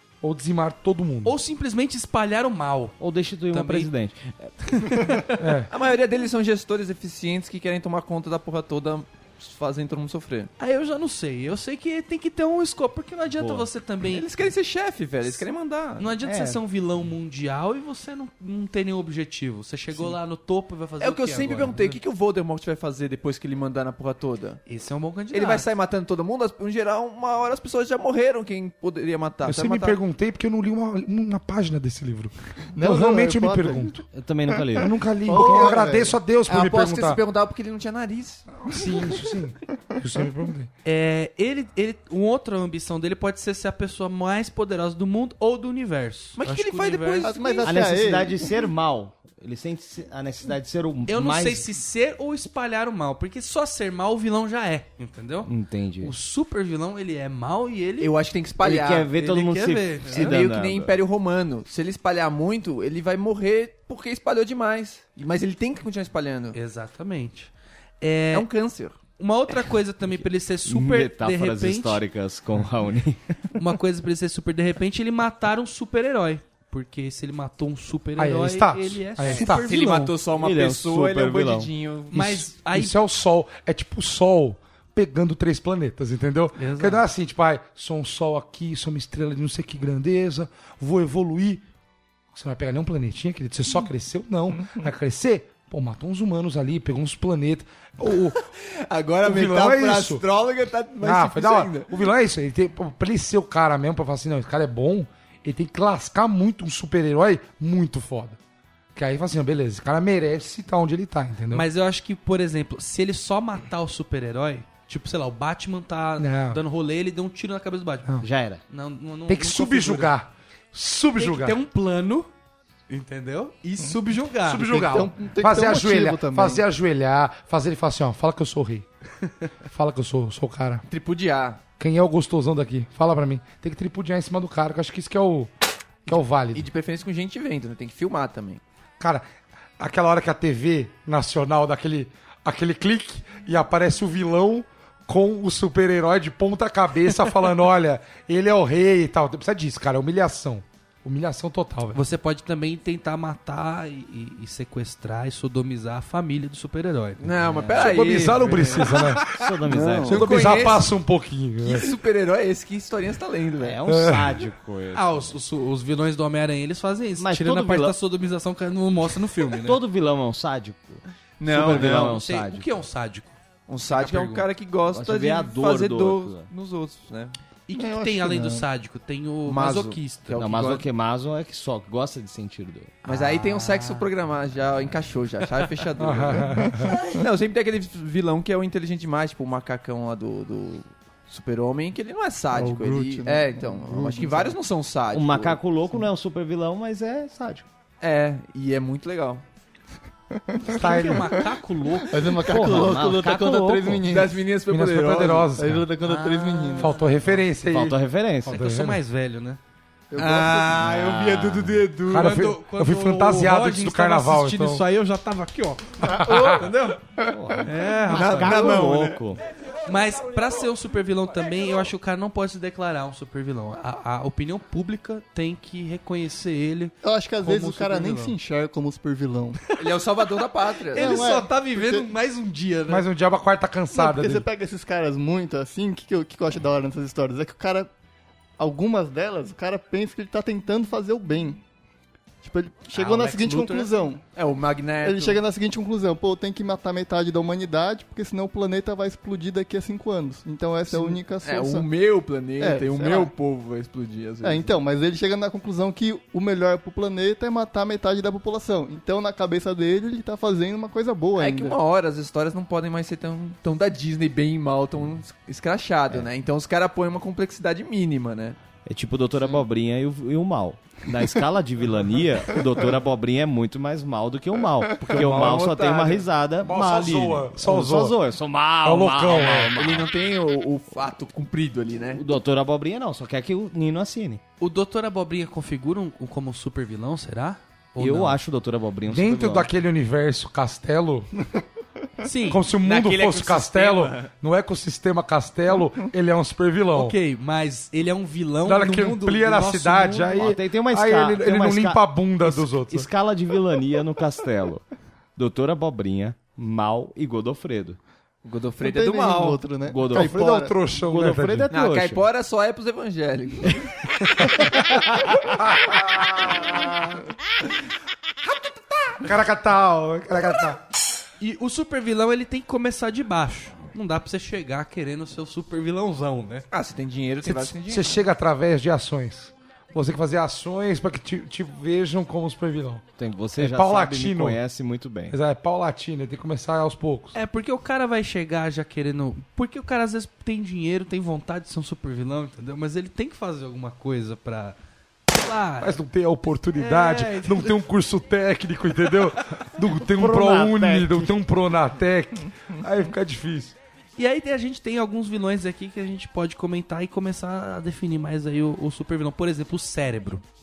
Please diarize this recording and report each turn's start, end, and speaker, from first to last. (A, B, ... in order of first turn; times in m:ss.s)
0:00.2-0:01.4 A
0:01.2-0:02.9 B
0:03.0-0:04.8 C
0:03.5-0:03.9 B
0:04.8-0:05.2 B
0:05.4-0:05.7 A
0:05.7-0:10.5 D
0:10.6-0:14.2 B
0:13.4-0:13.7 C
0:14.0-0:16.0 D
0:16.0-0:22.0 B
0:16.2-0:16.6 C
0:21.0-0:24.6 D
0:24.7-0:25.6 B
0:25.3-0:30.0 D
0:29.4-0:34.0 A
0:32.7-0:33.9 E
0:34.1-0:35.0 C
0:34.8-0:37.2 A
0:35.2-0:36.2 E
0:35.3-0:35.8 D
0:36.4-0:38.5 D
0:38.6-0:40.7 A
0:40.8-0:47.3 B
0:46.4-0:47.9 D
0:47.2-0:48.4 E
0:47.6-0:51.6 C
0:51.1-0:58.1 B
0:55.4-0:56.1 C
0:58.0-0:59.1 D
0:58.6-1:01.0 C
0:59.1-1:00.4 B
1:00.1-1:06.6 D
1:06.5-1:08.5 B
1:08.3-1:09.0 D
1:09.2-1:12.0 B
1:10.1-1:13.4 C
1:13.5-1:20.1 B
1:18.2-1:19.7 A
1:19.2-1:22.2 D
1:19.7-1:21.7 C
1:22.1-1:23.0 B
1:22.1-1:31.6 A
1:26.6-1:27.0 B
1:32.3-1:38.4 A
1:38.3-1:41.9 D
1:39.2-1:40.2 A
1:41.0-1:48.4 A
1:48.9-1:51.7 A
1:51.5-2:00.1 B
1:56.2-1:56.6 A
1:58.2-1:58.6 C
1:59.3-2:01.6 A
2:01.2-2:02.3 B
2:02.9-2:04.8 B
2:04.4-2:08.8 A
2:04.6-2:06.6 E
2:09.7-2:10.8 A
2:10.9-2:11.6 D
2:11.8-2:15.5 A
2:16.0-2:16.7 A
2:16.5-2:18.6 D
2:19.8-2:32.0 A
2:31.9-2:37.3 B
2:37.2-2:39.1 D
2:37.2-2:38.3 C
2:37.8-2:39.4 A
2:39.3-2:40.5 C
2:39.7-2:40.9 D
2:40.1-2:41.9 A
2:41.6-2:43.8 D
2:43.6-2:45.4 C
2:43.9-2:44.4 A
2:44.9-2:49.8 B
2:47.2-2:48.0 C
2:49.6-2:52.7 C
2:51.4-2:52.2 D
2:51.5-2:53.4 B
2:53.7-2:57.3 D
2:53.9-2:54.5 B
2:54.9-2:56.5 C
2:57.7-3:00.4 B
2:57.7-2:58.6 E
2:59.5-3:00.8 D
3:00.4-3:03.1 C
3:03.0-3:15.6 D
3:06.0-3:07.0 A
3:12.5-3:14.5 E
3:15.1-3:17.6 C
3:18.0-3:19.4 D
3:20.5-3:21.2 E
3:20.7-3:22.9 B
3:20.8-3:21.3 A
3:22.1-3:24.4 E
3:22.5-3:24.1 C
3:24.1-3:25.5 D
3:24.7-3:25.9 A
3:25.6-3:27.0 E
3:26.0-3:28.6 C
3:26.8-3:29.0 A
3:28.5-3:29.6 B
3:30.1-3:30.9 E
3:30.2-3:31.9 D
3:30.3-3:31.9 C
3:32.0-3:34.8 A
3:32.0-3:36.6 B
3:36.1-3:36.7 A
3:36.1-3:37.4 E
3:37.2-3:39.4 C
3:37.6-3:38.8 B
3:38.1-3:39.2 D
3:39.8-3:48.3 B
3:47.0-3:49.6 E
3:49.8-3:51.3 D
3:50.9-3:53.0 B
3:50.9-3:52.1 E
3:52.9-3:54.4 A
3:53.9-3:57.9 E
3:58.6-4:01.6 E
4:02.4-4:04.2 E
4:02.9-4:03.9 B
4:04.3-4:05.4 D
4:05.0-4:11.9 E
4:10.9-4:14.7 D
4:12.6-4:13.3 E
4:14.4-4:21.8 E
4:21.4-4:28.6 D
4:28.8-4:40.1 C
4:35.1-4:36.2 D
4:35.1-4:35.7 A
4:36.6-4:38.2 A
4:38.8-4:39.8 A
4:39.8-4:42.2 D
4:42.1-4:44.4 C
4:44.6-4:48.4 B
4:48.0-4:49.7 C
4:49.1-4:51.3 A
4:52.2-4:52.6 B
4:52.5-4:57.2 A
4:52.8-4:54.3 D
4:56.9-5:00.5 B
4:58.6-5:03.1 A
5:00.4-5:04.8 C
5:05.4-5:08.0 C
5:08.4-5:09.6 D
5:08.8-5:10.8 E
5:09.9-5:10.4 C
5:10.1-5:11.7 A
5:10.9-5:12.2 C
5:11.7-5:14.0 D
5:19.2-5:20.8 A
5:21.4-5:26.6 B
5:26.7-5:28.2 D
5:27.4-5:33.0 A
5:33.2-5:35.4 C
5:33.6-5:34.6 A
5:35.3-5:37.4 A
5:37.3-5:44.8 B
5:45.3-5:46.0 B
5:45.8-5:53.7 A
5:46.8-5:47.8 B
5:50.0-5:51.4 C
5:54.2-6:00.4 B